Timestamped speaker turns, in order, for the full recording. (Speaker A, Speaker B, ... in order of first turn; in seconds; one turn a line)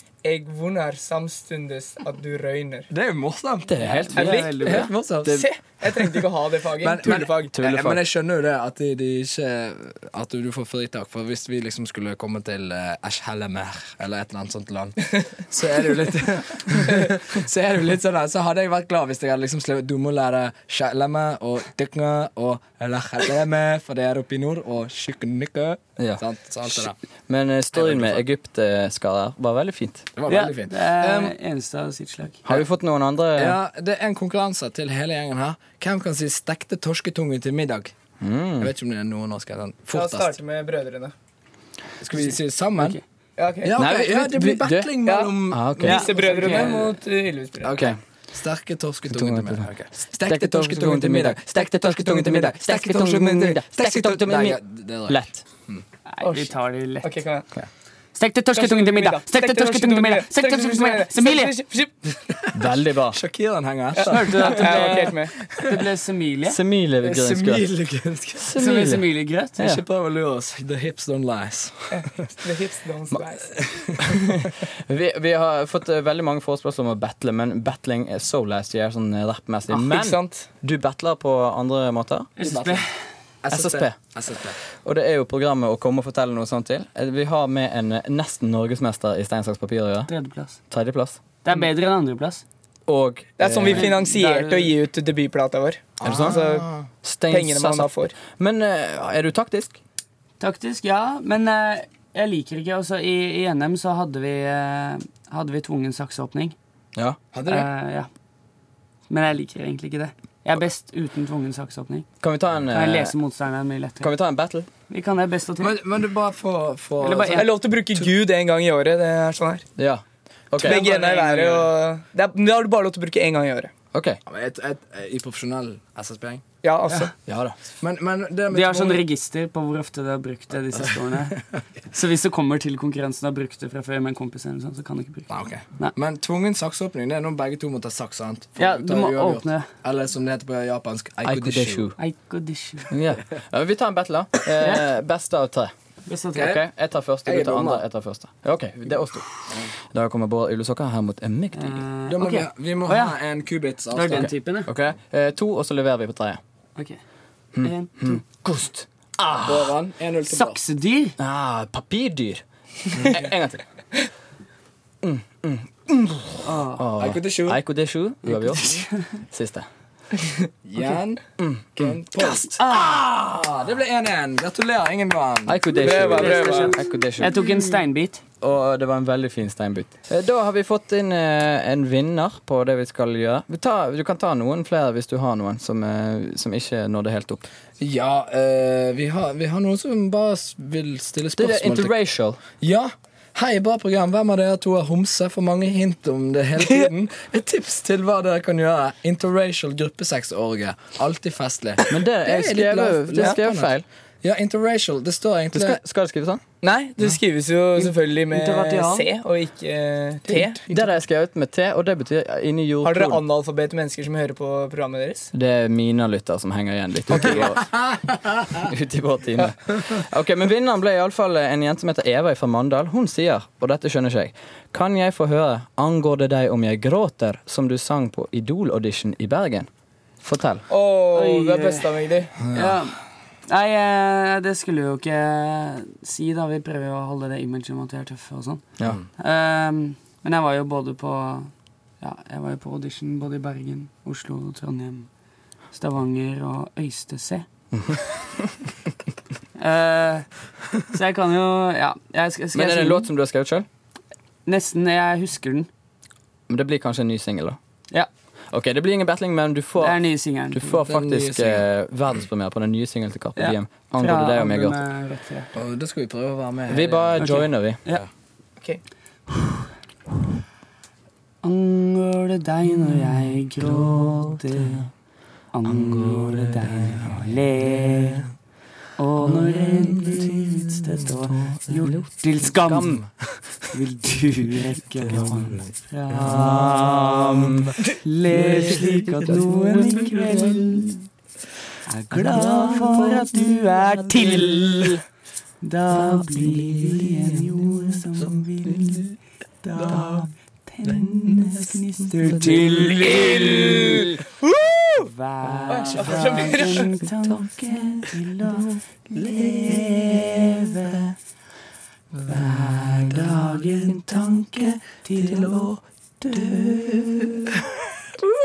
Speaker A: 0.2-2.9
Speaker B: 2.9-4.0
Speaker C: 3.7-4.5
Speaker D: 3.8-4.9
Speaker A: 4.2-7.5
Speaker B: 4.6-6.1
Speaker B: 6.7-27.0
Speaker C: 7.5-8.0
Speaker C: 26.0-30.1
Speaker B: 27.7-28.2
Speaker B: 30.2-31.4
Speaker D: 30.3-32.4
Speaker C: 32.5-33.6
Speaker B: 33.4-37.9
Speaker C: 38.2-38.7
Speaker B: 38.6-40.4
Speaker A: 39.9-41.1
Speaker B: 42.0-43.0
Speaker A: 43.4-43.8
Speaker B: 43.6-46.8
Speaker C: 43.8-44.9
Speaker A: 45.0-47.9
Speaker C: 45.5-46.1
Speaker D: 45.8-47.0
Speaker C: 47.6-48.0
Speaker B: 47.6-55.9
Speaker C: 49.1-49.7
Speaker C: 50.2-55.4
Speaker D: 56.1-57.2
Speaker A: 56.2-57.5
Speaker D: 58.1-61.5
Speaker A: 58.5-62.2
Speaker B: 62.5-65.9
Speaker C: 62.5-63.2
Speaker A: 64.0-65.3
Speaker D: 64.1-66.6
Speaker C: 66.5-67.7
Speaker B: 67.0-68.5
Speaker C: 68.4-69.1
Speaker D: 68.6-69.6
Speaker C: 69.6-69.8
Speaker B: 69.6-72.1
Speaker A: 71.9-73.5
Speaker B: 73.5-74.4
Speaker C: 74.0-82.3
Speaker A: 79.7-80.5
Speaker D: 82.4-82.9
Speaker B: 82.4-82.9
Speaker B: 83.4-84.6
Speaker C: 83.5-84.0
Speaker C: 84.8-90.1
Speaker D: 90.1-90.6
Speaker C: 90.7-91.2
Speaker D: 91.4-92.4
Speaker C: 92.9-93.9
Speaker A: 93.4-96.7
Speaker D: 93.6-94.7
Speaker B: 96.0-96.5
Speaker C: 96.0-99.8
Speaker A: 97.3-98.2
Speaker D: 100.4-106.6
Speaker B: 107.3-107.7
Speaker D: 107.5-108.1
Speaker D: 109.1-112.1
Speaker C: 112.2-113.1
Speaker D: 112.7-114.1
Speaker C: 114.0-114.7
Speaker D: 114.9-115.8
Speaker B: 115.6-118.1
Speaker D: 117.0-117.5
Speaker A: 117.3-119.7
Speaker C: 119.8-120.8
Speaker A: 120.6-123.7
Speaker D: 120.6-121.7
Speaker C: 123.9-124.2
Speaker B: 124.3-126.4
Speaker A: 126.6-127.1
Speaker C: 127.3-127.5
Speaker B: 127.8-129.0
Speaker D: 128.5-135.9
Speaker B: 130.8-131.3
Speaker B: 135.3-141.9
Speaker D: 138.6-139.7
Speaker C: 141.2-142.0
Speaker D: 142.0-142.9
Speaker C: 142.9-145.7
Speaker D: 144.6-144.9
Speaker D: 146.1-146.6
Speaker B: 146.3-146.6
Speaker C: 146.3-149.3
Speaker B: 147.2-147.9
Speaker C: 149.9-151.8
Speaker D: 151.6-153.2
Speaker B: 152.1-154.3
Speaker D: 153.9-154.7
Speaker C: 154.1-156.4
Speaker C: 157.6-159.8
Speaker D: 157.6-158.2
Speaker B: 159.4-160.6
Speaker D: 160.3-161.2
Speaker C: 161.2-162.4
Speaker B: 162.9-163.2
Speaker C: 163.0-163.6
Speaker C: 165.0-169.7
Speaker D: 166.4-166.8
Speaker B: 167.0-167.6
Speaker D: 168.3-169.0
Speaker B: 170.7-171.2
Speaker C: 171.4-172.3
Speaker B: 171.8-175.6
Speaker C: 175.5-177.4
Speaker A: 175.8-176.8
Speaker D: 175.9-178.2
Speaker C: 178.4-187.5
Speaker B: 187.8-191.9
Speaker C: 191.4-192.4
Speaker B: 192.6-203.7
Speaker C: 201.9-203.8
Speaker B: 204.2-205.8
Speaker C: 205.5-206.4
Speaker A: 206.6-210.6
Speaker D: 207.8-209.1
Speaker B: 210.3-210.9
Speaker C: 210.7-213.2
Speaker A: 212.8-215.3
Speaker C: 215.3-217.8
Speaker B: 217.1-218.7
Speaker C: 218.6-229.7
Speaker C: 230.2-230.7
Speaker A: 230.7-232.3
Speaker D: 231.1-245.1
Speaker B: 232.4-232.8
Speaker D: 245.7-247.5
Speaker D: 249.6-250.3
Speaker D: 250.9-253.1
Speaker C: 252.5-253.7
Speaker D: 254.5-255.7
Speaker C: 256.5-257.6
Speaker C: 258.5-260.0
Speaker D: 259.8-260.8
Speaker C: 260.5-264.8
Speaker B: 260.9-261.7
Speaker D: 263.4-265.5
Speaker B: 265.6-267.2
Speaker C: 266.7-267.8
Speaker D: 267.2-268.0
Speaker D: 269.3-269.6
Speaker D: 271.4-274.9
Speaker D: 275.5-278.3
Speaker B: 275.7-276.8
Speaker D: 279.0-283.0
Speaker C: 282.0-283.1
Speaker D: 283.7-287.1
Speaker B: 285.1-285.7
Speaker C: 286.1-287.8
Speaker B: 287.7-287.9
Speaker D: 288.0-291.1
Speaker C: 288.3-290.7
Speaker B: 289.7-290.6
Speaker D: 291.9-295.0
Speaker C: 292.1-295.0
Speaker D: 295.6-304.2
Speaker C: 296.0-297.2
Speaker B: 299.7-300.1
Speaker C: 302.2-303.8
Speaker B: 302.3-303.2
Speaker A: 303.0-304.3
Speaker D: 304.9-311.1
Speaker A: 305.7-307.0
Speaker C: 307.2-308.8
Speaker D: 312.2-315.7
Speaker C: 313.9-315.6
Speaker D: 316.3-316.8
Speaker C: 316.5-317.2